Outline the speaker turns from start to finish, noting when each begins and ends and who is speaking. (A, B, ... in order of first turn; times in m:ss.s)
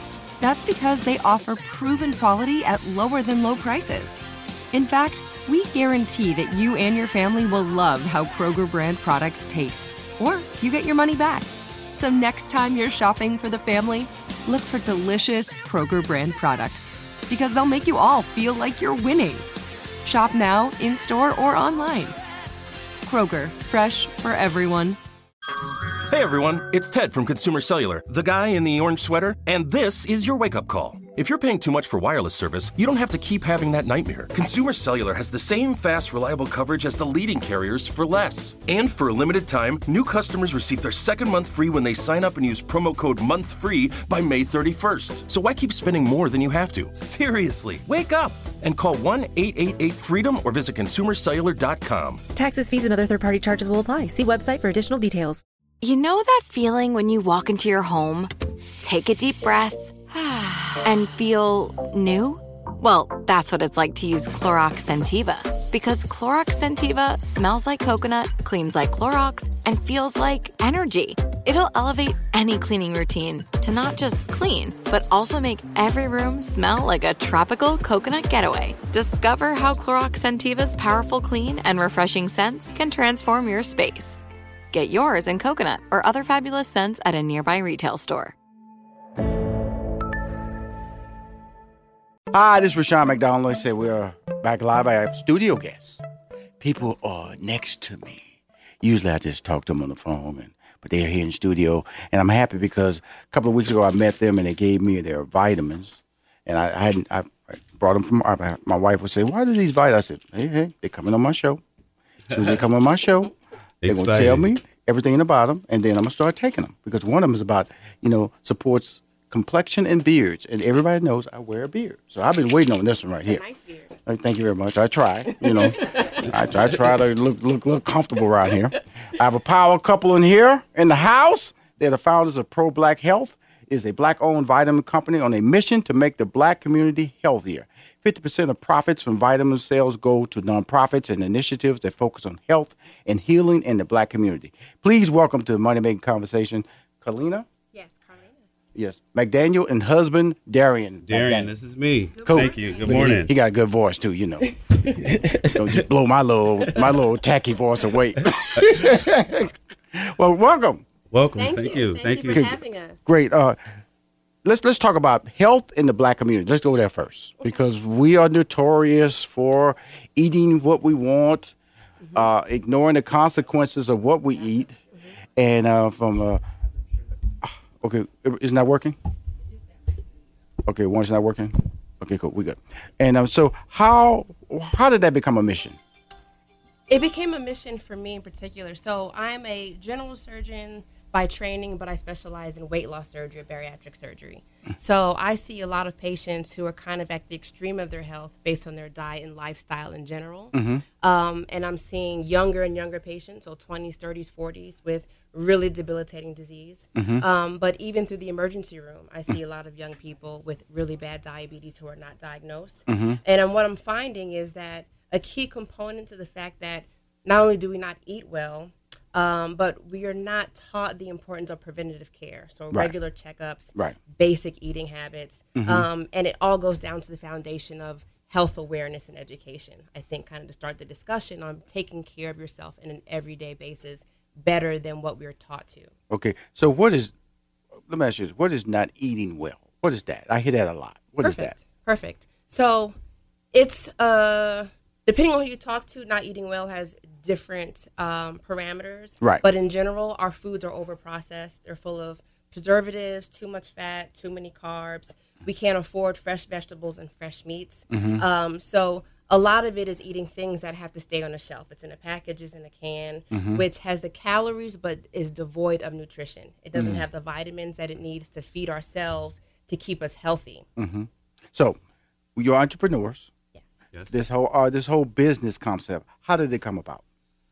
0:00.4-0:04.2 A
0:04.7-0:19.5 A
0:20.0-0:22.2 A
0:23.0-0:25.0 A
0:26.0-0:52.2 B
0:52.4-0:55.4 C
0:55.8-1:28.4 D
1:32.3-1:36.0 E
1:36.6-1:38.3 E
1:38.8-1:51.6 E
1:52.3-1:53.3 E
1:53.8-1:54.5 F
1:53.8-2:03.4 E
2:03.2-2:04.0 G
2:04.1-2:27.5 E
2:05.9-2:06.2 G
2:27.7-2:28.4 G
2:28.8-2:31.5 E
2:31.1-2:33.3 F
2:32.2-2:33.1 G
2:32.3-2:34.5 E
2:35.0-2:35.8 F
2:35.4-2:40.8 E
2:41.1-2:42.5 F
2:41.4-2:43.1 G
2:42.3-2:43.6 E
2:44.4-2:51.6 E
2:52.1-2:56.4 E
2:57.4-2:59.0 E
3:00.6-3:05.8 E
3:06.9-3:55.9 G
3:20.5-3:20.8 E
3:27.0-3:27.2 E
3:32.9-3:33.2 E
3:45.6-3:45.9 E
3:56.1-3:57.1 E
3:57.9-4:01.6 E
4:01.2-4:03.0 G
4:03.5-4:30.7 G
4:17.9-4:18.2 E
4:23.3-4:23.6 E
4:26.7-4:27.0 E
4:30.8-4:31.8 E
4:32.4-4:33.3 E
4:34.1-4:37.0 E